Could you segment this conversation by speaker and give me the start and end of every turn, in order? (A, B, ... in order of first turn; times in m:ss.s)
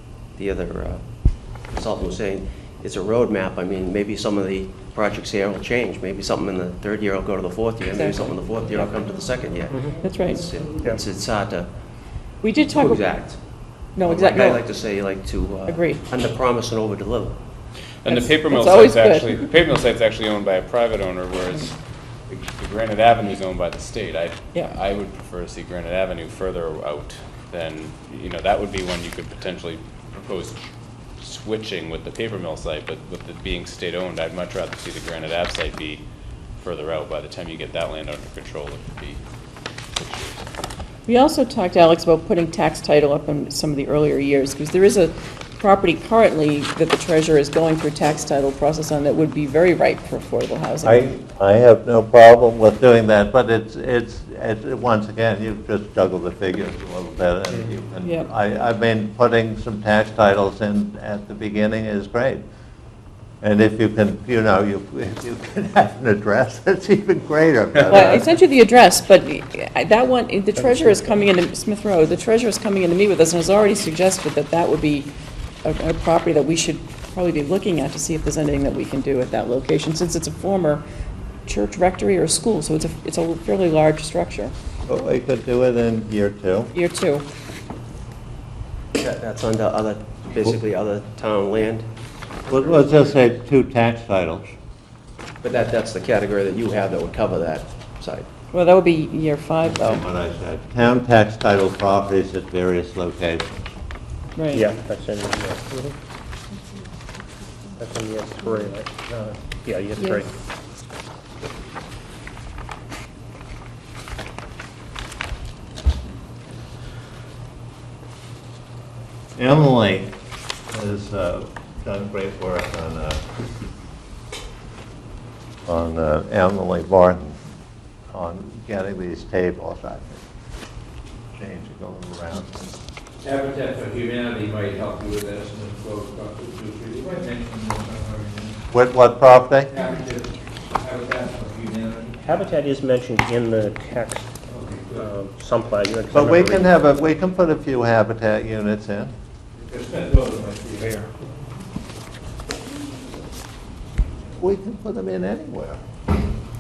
0:00.3-0:11.7 A
0:07.9-0:08.3 B
0:09.7-0:10.0 C
0:09.9-0:10.5 B
0:12.4-0:13.1 B
0:12.7-0:17.4 A
0:14.0-0:14.6 B
0:15.7-0:16.0 B
0:18.0-0:21.7 D
0:18.1-0:19.4 B
0:22.3-0:30.6 D
0:31.2-0:36.0 D
0:36.6-0:39.2 D
0:40.0-0:40.5 D
0:41.1-0:51.1 B
0:50.8-1:02.4 E
0:58.0-0:58.3 B
1:03.4-1:08.2 E
1:07.9-1:15.1 B
1:15.6-1:20.8 B
1:21.5-1:24.5 B
1:24.9-1:26.7 E
1:26.7-1:27.2 B
1:29.0-1:31.9 A
1:32.5-1:34.5 E
1:35.4-1:38.3 A
1:38.5-1:40.0 B
1:39.6-1:43.7 E
1:44.4-1:44.7 B
1:44.5-1:46.0 C
1:47.8-1:50.3 C
1:59.4-2:00.1 E
2:00.7-2:03.2 E
2:05.7-2:07.4 E
2:08.1-2:10.2 E
2:11.4-2:12.6 E
2:13.2-2:18.6 F
2:18.7-2:19.7 E
2:19.7-2:20.3 F
2:20.8-2:22.2 F
2:22.2-2:24.4 C
2:24.5-2:25.1 F
2:25.0-2:26.7 C
2:26.1-2:29.1 E
2:29.6-2:31.0 F
2:34.4-2:35.8 E